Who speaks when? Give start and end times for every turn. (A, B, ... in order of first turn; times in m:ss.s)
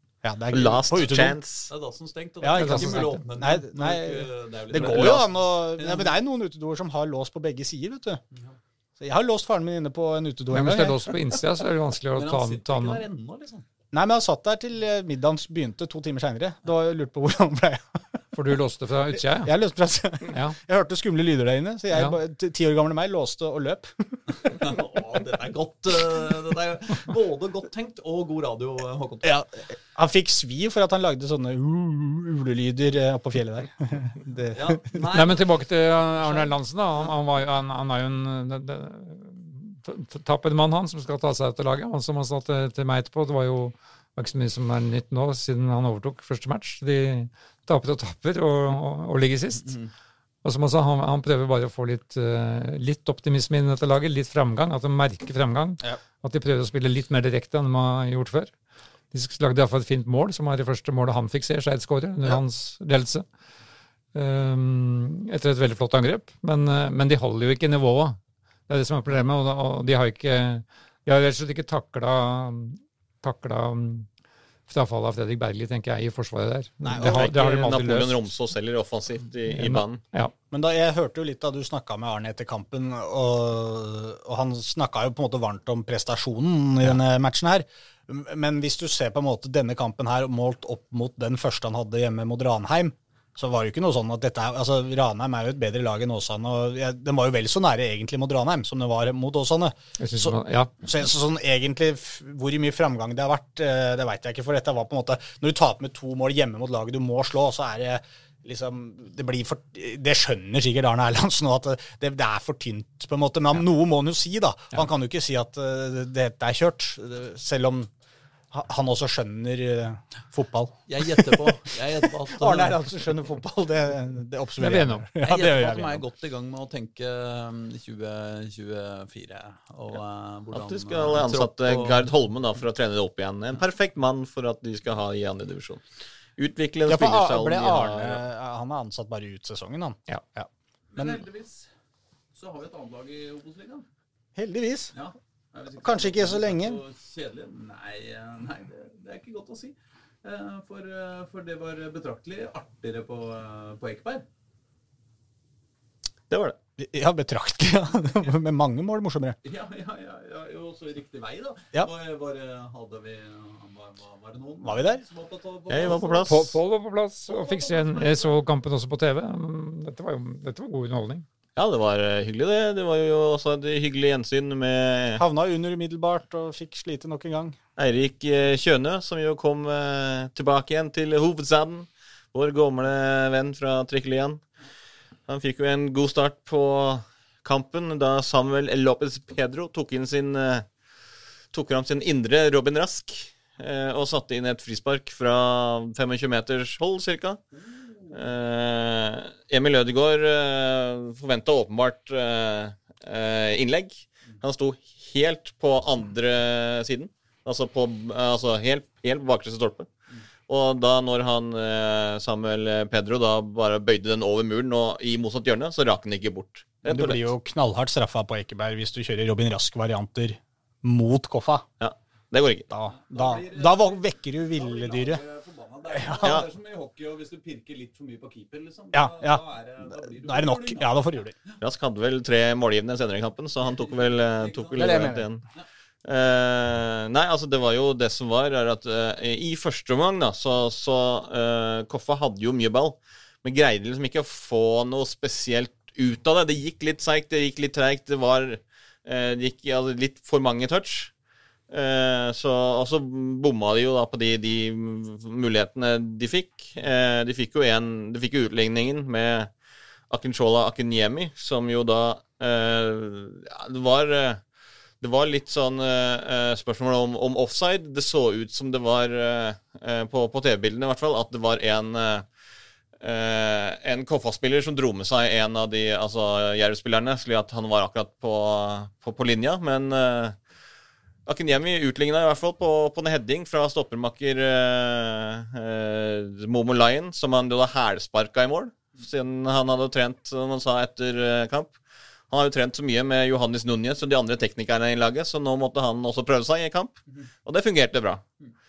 0:00.2-0:01.4 A
0:00.5-0:01.7 B
0:01.7-0:06.2 C
0:02.4-0:08.2 A
0:02.5-0:03.2 D
0:09.0-0:11.1 A
0:10.5-0:13.0 D
0:12.1-0:13.6 C
0:13.9-0:18.0 A
0:18.3-0:19.5 D
0:19.4-0:24.7 A
0:20.3-0:20.6 D
0:21.9-0:22.2 D
0:24.4-0:29.4 C
0:29.2-0:35.0 A
0:34.5-0:36.5 C
0:35.1-0:49.9 D
0:50.4-0:58.5 D
0:59.1-1:03.2 D
1:04.1-1:14.1 D
1:14.7-1:18.1 D
1:16.8-1:17.3 A
1:17.0-1:20.0 B
1:19.5-1:20.3 D
1:20.5-1:57.9 A
1:40.0-1:40.7 D
1:58.5-2:01.7 A
2:00.9-2:02.8 C
2:02.3-2:06.0 A
2:04.6-2:05.0 D
2:05.2-2:12.0 C
2:10.5-2:15.8 B
2:16.4-2:18.2 B
2:16.9-2:21.2 A
2:20.9-2:21.7 C
2:22.3-2:23.8 C
2:24.4-2:24.9 A
2:24.9-2:34.2 C
2:25.8-2:26.8 A
2:36.3-2:36.6 B
2:36.8-2:39.4 A
2:39.4-2:46.4 C
2:44.6-2:45.0 A
2:45.7-2:46.5 B
2:46.2-2:51.2 D
2:47.3-2:48.4 C
2:51.6-2:55.2 B
2:55.2-2:57.6 A
2:57.8-3:04.4 B
3:05.3-3:10.6 B
3:11.5-3:17.4 B
3:18.1-3:29.9 B
3:30.5-3:37.3 B
3:36.8-3:41.6 A
3:41.8-3:42.7 B
3:42.7-3:45.2 A
3:43.0-3:50.9 C
3:45.9-3:46.3 A
3:48.9-3:51.3 A
3:51.6-3:55.4 B
3:53.7-3:55.6 C
3:54.8-3:55.2 A
3:56.0-4:11.1 B
4:11.7-4:19.5 B
4:20.1-4:24.4 B
4:25.0-4:32.2 B
4:33.0-4:40.4 B
4:41.2-4:51.7 B
4:52.3-4:58.2 B